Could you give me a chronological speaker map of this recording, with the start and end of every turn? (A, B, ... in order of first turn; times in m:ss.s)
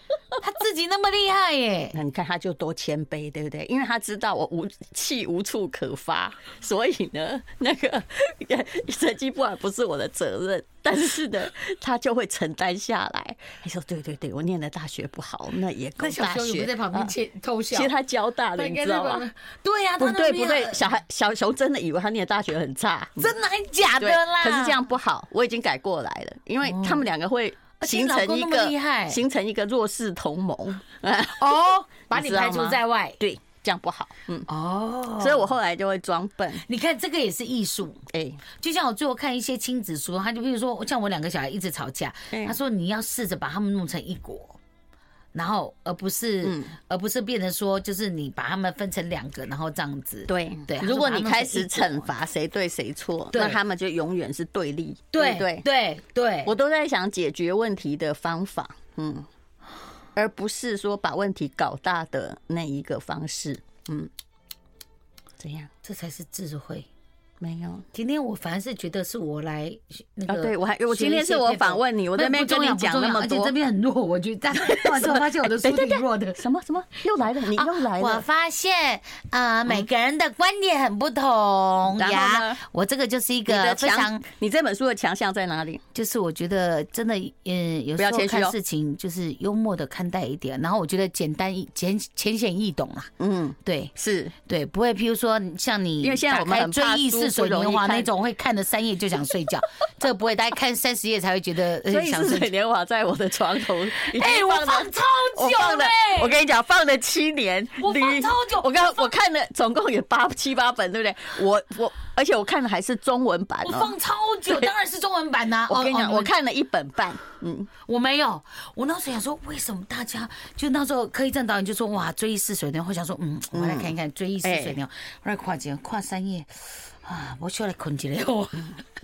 0:00.4-0:02.0 A
0:01.9-0:17.1 B
0:16.0-0:17.9 A
0:17.7-0:19.2 B
0:18.6-0:20.9 A
0:20.0-0:23.3 B
0:23.2-0:24.8 A
0:24.0-0:31.5 B
0:26.6-0:27.0 A
0:27.8-0:29.2 A
0:31.4-0:33.2 A
0:32.1-0:34.5 B
0:34.5-0:35.5 A
0:35.2-0:36.6 B
0:36.6-0:38.0 A
0:38.1-0:38.4 B
0:38.6-0:44.6 A
0:42.3-0:42.6 B
0:45.3-0:52.0 A
0:46.4-0:46.7 B
0:50.3-0:55.6 B
0:53.3-0:53.6 A
0:55.1-0:56.5 A
0:56.4-0:59.3 B
1:00.2-1:04.1 B
1:05.4-1:05.7 B
1:05.8-1:06.9 A
1:07.4-1:07.8 B
1:07.9-1:16.4 A
1:10.3-1:13.5 B
1:14.6-1:18.2 B
1:17.5-1:24.2 A
1:21.9-1:22.6 B
1:23.5-1:25.8 B
1:25.9-1:33.1 A
1:28.0-1:28.6 B
1:33.2-1:34.3 B
1:33.6-1:33.9 A
1:34.4-1:42.5 A
1:36.0-1:38.1 B
1:41.8-1:53.9 B
1:44.0-1:46.4 A
1:47.8-1:49.1 A
1:53.6-1:56.3 A
1:55.7-1:57.7 B
1:57.8-2:08.8 A
2:03.5-2:04.8 B